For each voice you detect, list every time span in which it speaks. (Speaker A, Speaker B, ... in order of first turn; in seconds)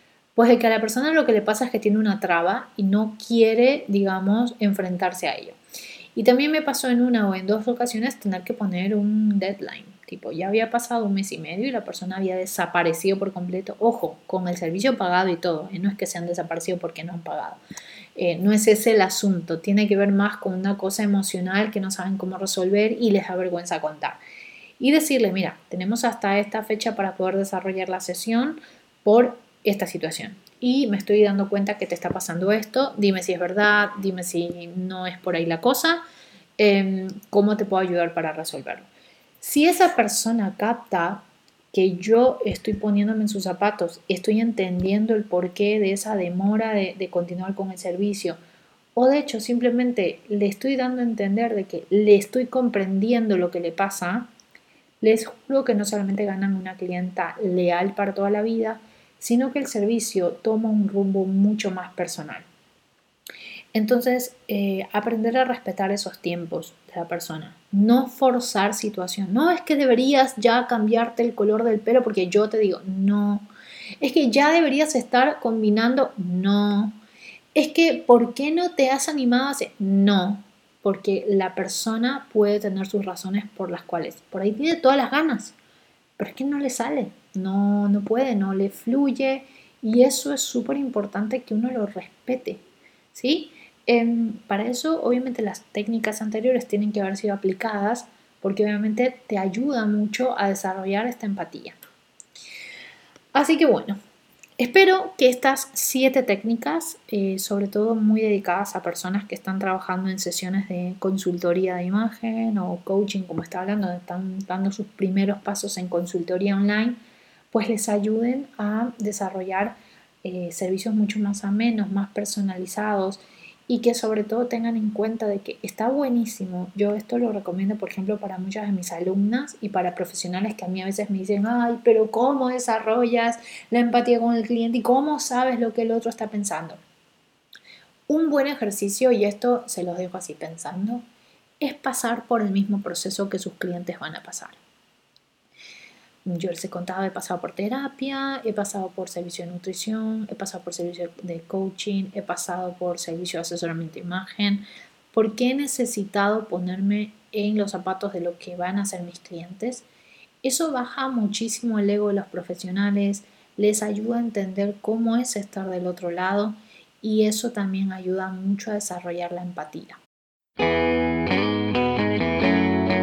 Speaker A: 0.3-5.6, 6.2-17.6, 18.1-24.2, 24.8-36.0, 36.6-38.9, 39.4-48.4, 48.9-54.3, 55.0-62.5, 63.7-73.5, 74.0-77.0, 77.5-85.5, 86.2-92.6, 93.1-101.8, 103.3-104.0, 104.6-117.0, 117.5-136.8, 138.1-141.0, 141.6-144.6, 146.2-159.8, 160.4-170.0